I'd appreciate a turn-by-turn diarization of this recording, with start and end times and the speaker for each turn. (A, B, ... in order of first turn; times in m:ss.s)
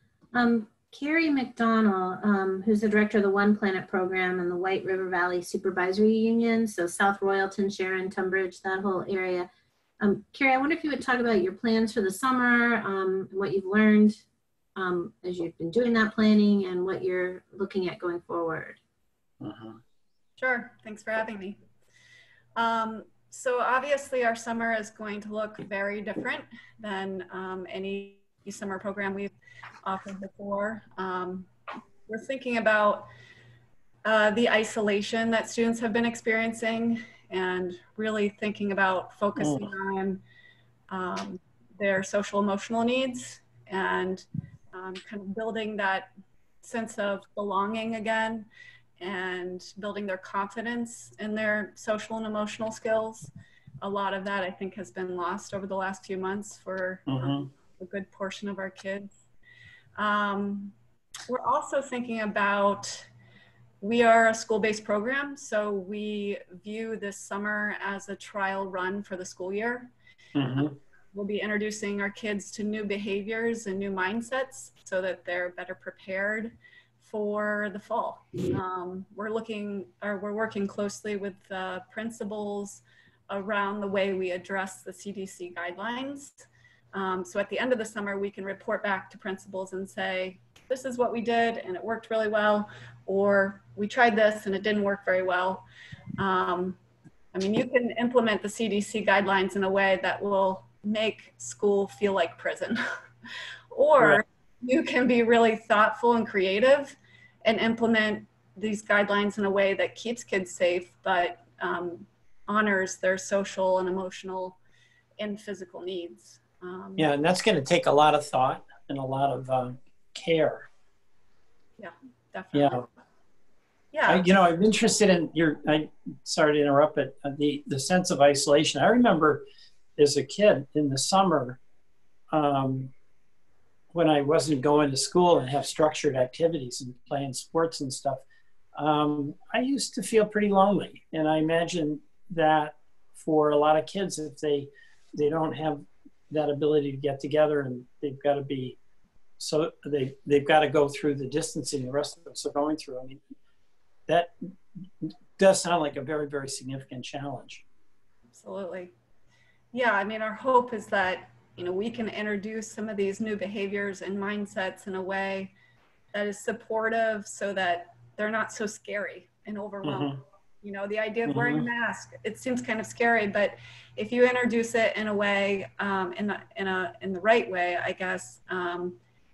0:00.3-0:09.5 A
0:10.0-0:14.2 A
0:14.8-0:18.8 A
0:19.4-0:19.8 B
0:20.4-0:21.6 C
0:22.6-0:29.3 C
0:29.8-0:31.5 C
0:32.1-0:33.1 C
0:34.0-0:40.2 C
0:39.4-0:39.7 B
0:40.9-0:46.1 C
0:46.6-0:48.5 C
0:49.0-0:59.1 C
0:57.1-0:57.5 B
1:00.0-1:00.8 C
1:01.3-1:03.1 C
1:03.8-1:09.9 C
1:10.4-1:10.8 B
1:10.6-1:35.6 C
1:36.2-1:36.8 C
1:37.3-1:42.8 C
1:43.7-1:54.6 C
1:55.2-1:57.1 C
1:57.0-2:00.7 B
2:01.8-2:02.8 C
2:02.5-2:02.9 B
2:03.9-2:04.3 C
2:04.1-2:09.4 B
2:10.0-2:11.6 B
2:12.3-2:12.9 B
2:13.9-2:18.2 B
2:18.8-2:28.8 B
2:29.4-2:33.2 B
2:34.1-2:34.3 B
2:35.0-2:37.6 B
2:38.3-2:38.9 C
2:39.7-2:45.5 C
2:46.1-2:59.0 C
2:49.9-2:50.2 B
2:51.3-2:51.6 B